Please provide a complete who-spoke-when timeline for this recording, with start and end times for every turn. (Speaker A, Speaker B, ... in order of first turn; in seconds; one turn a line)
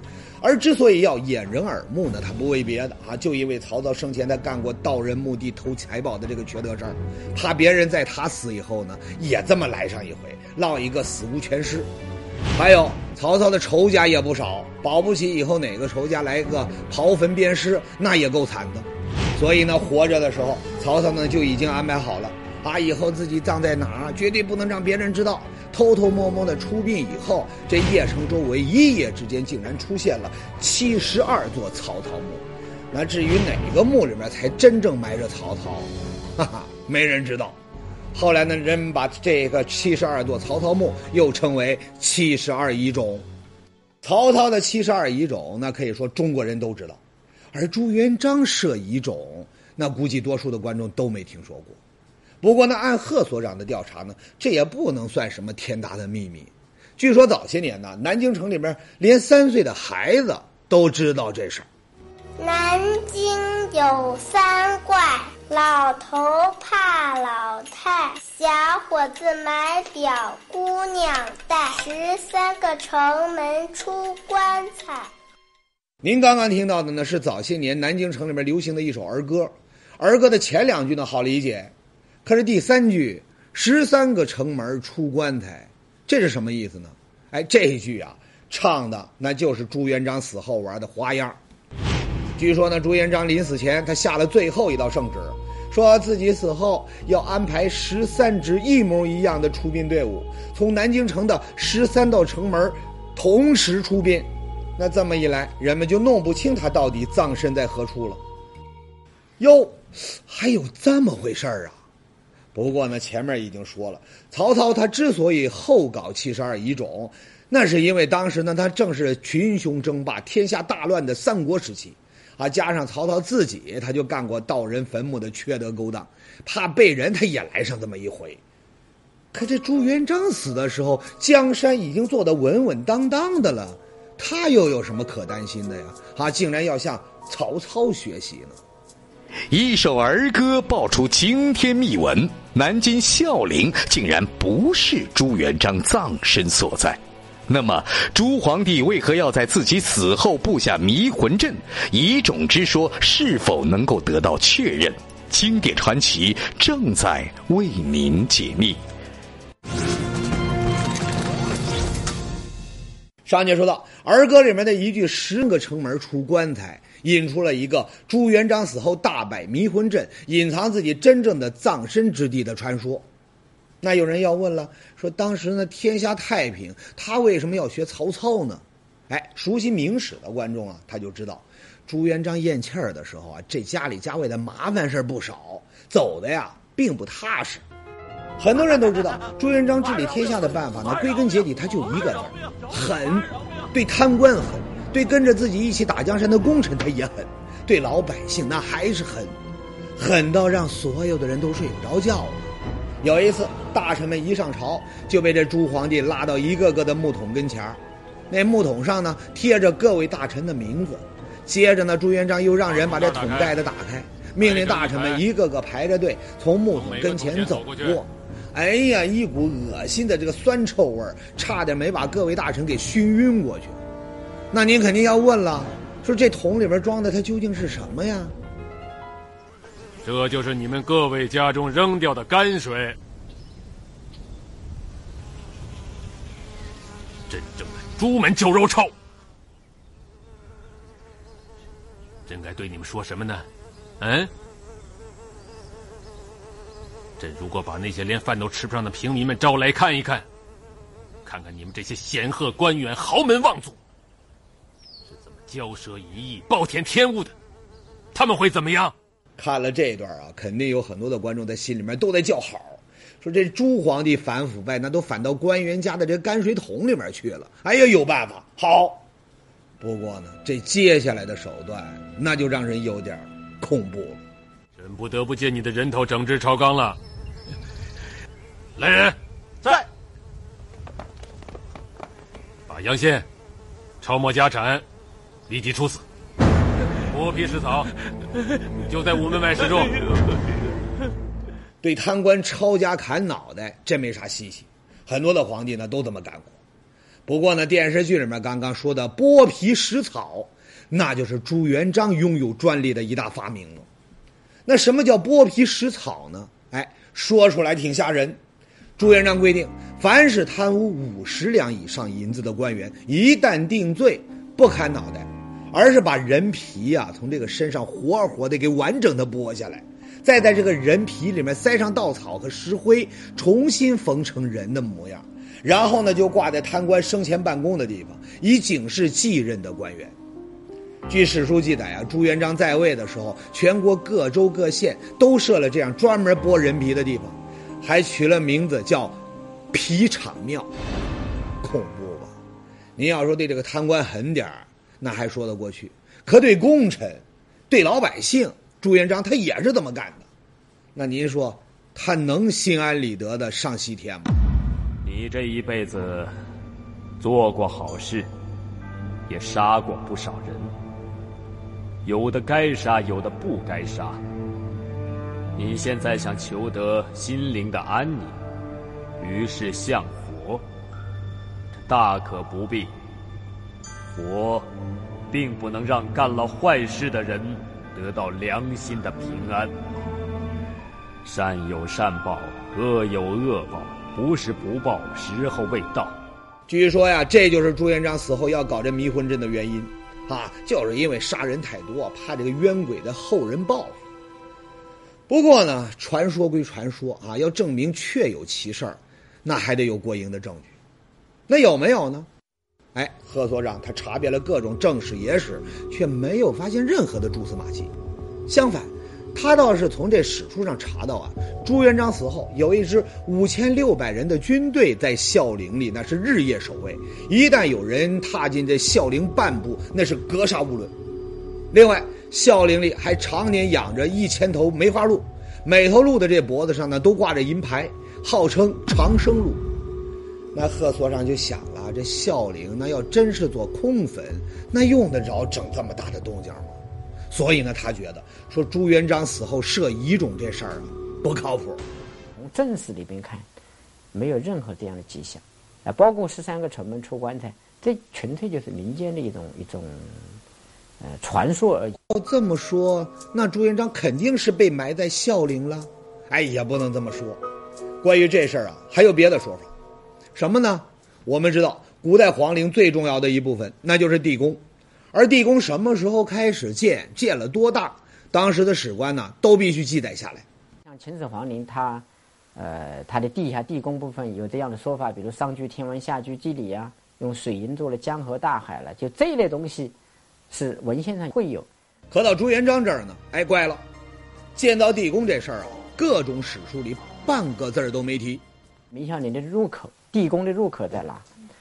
Speaker A: 0.4-11.9
Speaker A: 12.5-37.6
Speaker A: 38.1-43.3
Speaker A: 44.0-47.0
Speaker A: 47.5-51.8
Speaker A: 52.4-61.7
Speaker B: 62.4-75.1
Speaker A: 76.0-81.7
Speaker A: 82.2-91.4
Speaker A: 92.3-108.2
Speaker A: 109.4-111.8
Speaker A: 112.5-128.4
Speaker A: 129.3-138.6
Speaker C: 139.5-158.8
Speaker A: 163.2-173.0
Speaker A: 173.8-187.6
Speaker A: 188.4-199.3
Speaker A: 199.9-202.4
Speaker A: 203.0-223.8
Speaker D: 212.7-213.6
Speaker D: 214.4-215.2
Speaker D: 216.7-218.0
Speaker A: 224.5-228.3
Speaker D: 230.0-233.0
Speaker D: 237.3-238.9
Speaker D: 242.3-243.4
Speaker D: 244.0-244.3
Speaker D: 247.2-250.2
Speaker D: 251.2-253.8
Speaker D: 255.1-257.3
Speaker D: 258.1-258.9
Speaker A: 259.4-269.0
Speaker A: 269.8-274.2
Speaker D: 274.8-277.0
Speaker D: 278.8-279.8
Speaker D: 282.7-283.2
Speaker D: 284.0-284.8
Speaker D: 285.5-286.0
Speaker D: 287.1-287.9
Speaker D: 288.8-290.4
Speaker A: 291.8-296.6
Speaker A: 297.3-303.9
Speaker A: 304.6-308.4
Speaker A: 309.0-330.1
Speaker A: 331.1-339.2
Speaker A: 339.7-340.7
Speaker A: 341.6-342.4
Speaker A: 343.0-350.3
Speaker A: 350.9-354.3
Speaker E: 355.0-356.3
Speaker E: 357.2-358.3
Speaker E: 359.3-360.7
Speaker E: 362.0-364.2
Speaker E: 365.5-368.4
Speaker E: 369.2-370.6
Speaker E: 371.7-372.9
Speaker E: 374.1-374.7
Speaker E: 375.3-379.7
Speaker E: 381.2-386.2
Speaker A: 386.7-394.0
Speaker A: 395.3-400.7
Speaker A: 401.5-402.3
Speaker A: 402.9-407.9
Speaker A: 408.5-420.9
Speaker A: 421.7-429.6
Speaker A: 430.5-436.8
Speaker A: 437.3-441.8
Speaker F: 442.4-443.4
Speaker F: 444.1-450.4
Speaker F: 451.0-452.0
Speaker A: 452.1-457.4
Speaker A: 458.0-459.7
Speaker A: 460.3-464.6
Speaker A: 465.1-470.4
Speaker F: 470.9-479.9
Speaker F: 480.5-481.7
Speaker A: 482.1-483.8
Speaker A: 484.5-488.4
Speaker F: 488.9-491.3